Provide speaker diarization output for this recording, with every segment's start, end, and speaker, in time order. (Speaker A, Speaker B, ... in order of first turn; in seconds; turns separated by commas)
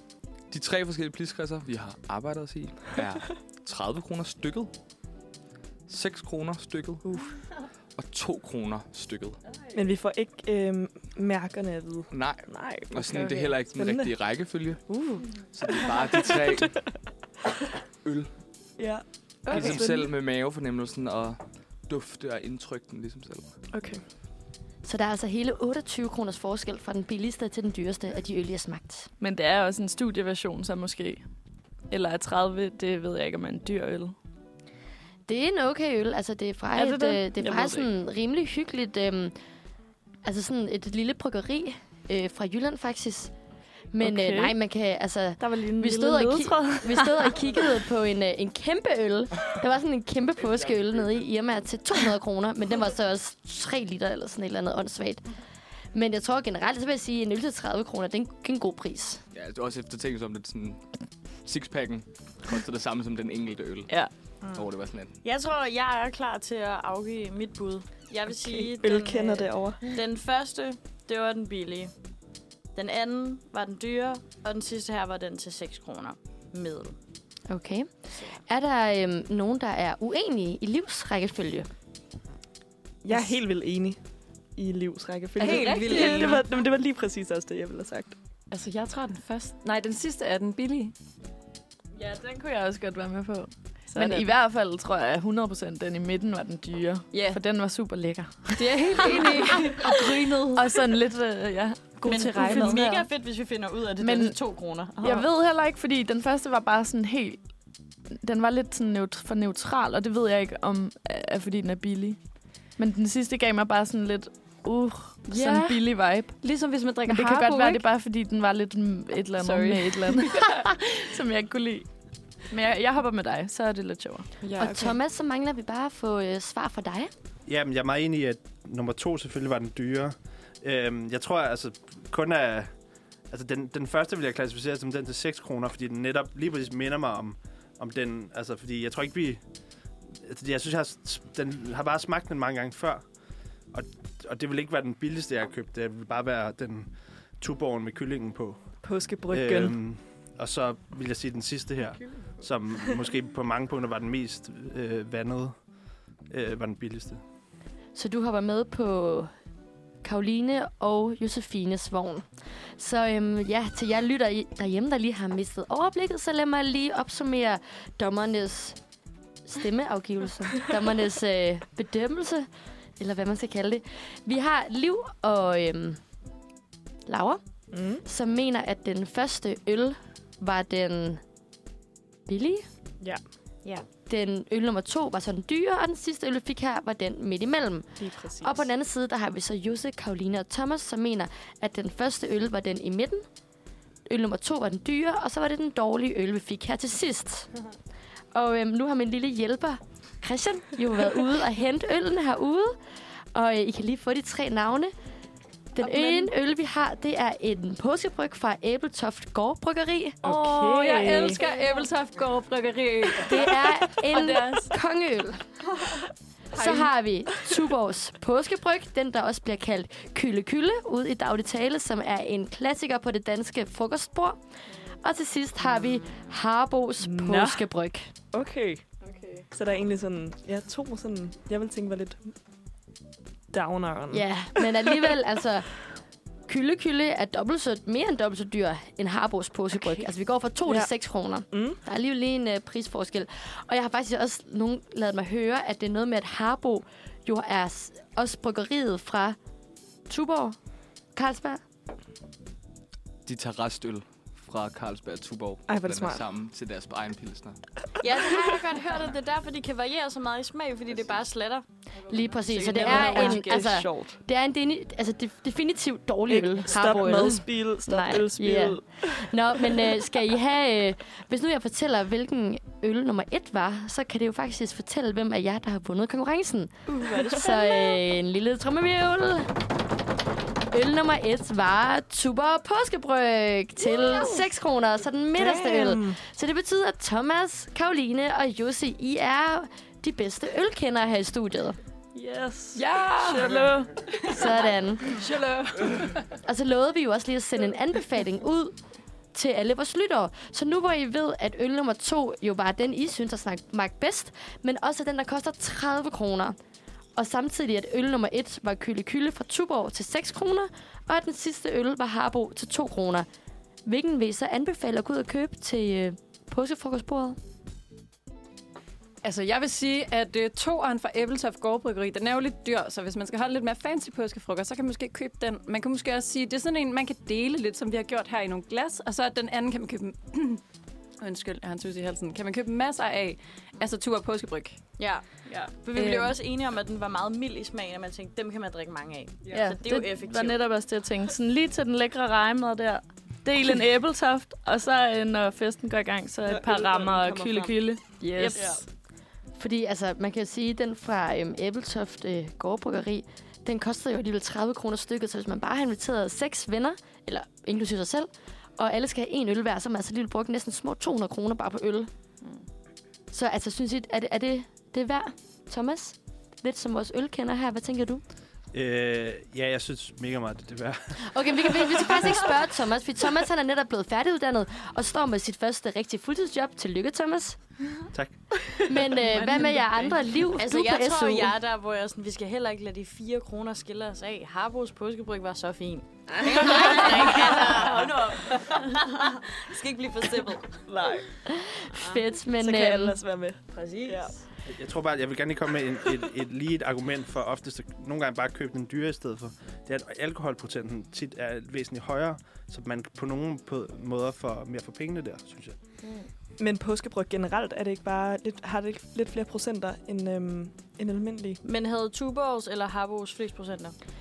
Speaker A: 0.5-4.7, Speaker A: 5.9-7.1, Speaker B: 7.0-7.3, Speaker A: 8.0-9.4, Speaker B: 9.7-14.2, Speaker A: 12.1-14.8, Speaker A: 15.5-16.8, Speaker B: 15.7-16.6, Speaker A: 18.1-18.3, Speaker B: 18.8-20.1, Speaker A: 19.5-23.5, Speaker C: 19.5-19.9, Speaker B: 23.7-24.0, Speaker D: 24.9-29.1, Speaker C: 29.2-31.2, Speaker C: 31.9-34.1, Speaker D: 35.3-39.4, Speaker C: 36.8-37.9, Speaker D: 40.2-43.3, Speaker D: 43.9-55.2, Speaker C: 44.0-44.6, Speaker C: 45.4-47.5, Speaker D: 55.9-59.2, Speaker A: 59.3-60.8, Speaker A: 61.4-63.9, Speaker E: 64.4-64.7, Speaker A: 64.5-65.1, Speaker E: 65.2-71.9, Speaker B: 68.4-69.8, Speaker E: 72.8-77.0, Speaker D: 77.5-81.7, Speaker B: 83.0-84.0, Speaker B: 84.6-88.2, Speaker F: 85.4-86.5, Speaker C: 85.4-86.4, Speaker F: 88.5-90.9, Speaker C: 91.9-103.1, Speaker F: 93.9-94.3, Speaker F: 97.1-97.4, Speaker F: 98.6-100.9, Speaker F: 102.0-103.0, Speaker E: 102.0-105.2, Speaker C: 104.0-104.4, Speaker C: 105.0-107.4, Speaker C: 108.1-112.2, Speaker C: 112.8-116.4, Speaker F: 115.2-117.8, Speaker C: 117.1-121.9, Speaker F: 119.4-121.1, Speaker C: 122.5-124.3, Speaker F: 124.4-124.9, Speaker D: 124.6-127.1, Speaker G: 127.5-132.7, Speaker G: 133.3-139.4, Speaker G: 140.1-143.0, Speaker G: 143.7-148.6, Speaker B: 148.8-149.8, Speaker G: 149.3-155.5, Speaker G: 156.3-157.2, Speaker D: 157.9-159.3, Speaker D: 160.0-162.2, Speaker D: 162.8-168.8, Speaker D: 169.5-172.5, Speaker D: 173.0-176.0, Speaker D: 177.1-177.4, Speaker B: 177.7-178.0, Speaker D: 178.0-181.2, Speaker D: 182.3-182.7, Speaker D: 184.1-193.2, Speaker B: 188.0-188.6, Speaker D: 194.1-197.5, Speaker D: 198.3-202.8, Speaker D: 203.3-204.9, Speaker D: 205.8-210.3, Speaker F: 205.8-206.3, Speaker F: 210.2-214.7, Speaker B: 210.3-211.3, Speaker C: 210.3-211.4, Speaker D: 213.2-215.4, Speaker D: 216.5-224.4, Speaker F: 216.5-216.9, Speaker D: 225.0-228.1, Speaker B: 227.0-227.6, Speaker B: 228.3-228.8, Speaker C: 229.1-229.4, Speaker B: 229.5-232.3, Speaker B: 233.5-235.2, Speaker D: 234.1-235.8, Speaker D: 236.5-249.4, Speaker B: 241.5-241.8, Speaker D: 250.1-250.6, Speaker D: 251.2-251.6, Speaker A: 253.2-257.6, Speaker B: 255.7-256.3, Speaker E: 258.0-261.6, Speaker D: 262.1-279.5, Speaker E: 262.5-263.1, Speaker F: 262.5-263.8, Speaker B: 262.7-264.2, Speaker B: 266.3-270.0, Speaker B: 276.9-278.0, Speaker D: 280.7-291.8, Speaker B: 285.4-286.2, Speaker C: 292.1-294.0, Speaker F: 292.8-296.2, Speaker B: 293.2-293.8, Speaker D: 294.3-295.2, Speaker D: 296.4-298.8, Speaker D: 299.3-306.6, Speaker D: 307.1-313.3, Speaker D: 313.9-317.4, Speaker F: 319.2-330.6, Speaker F: 331.2-334.8, Speaker E: 335.0-340.6, Speaker F: 335.9-336.4, Speaker C: 339.5-348.8, Speaker B: 346.4-347.8, Speaker F: 348.2-348.8, Speaker B: 348.5-348.8, Speaker D: 349.6-362.1, Speaker D: 363.3-368.2, Speaker G: 368.7-371.2, Speaker D: 371.3-377.6, Speaker G: 378.1-378.4, Speaker D: 378.8-381.5, Speaker C: 379.2-380.2, Speaker E: 380.6-390.8, Speaker C: 386.4-388.0, Speaker B: 390.9-391.3, Speaker D: 391.5-393.2, Speaker B: 392.6-394.3, Speaker E: 393.7-394.3, Speaker G: 394.6-405.8, Speaker B: 406.6-411.6, Speaker E: 411.6-413.9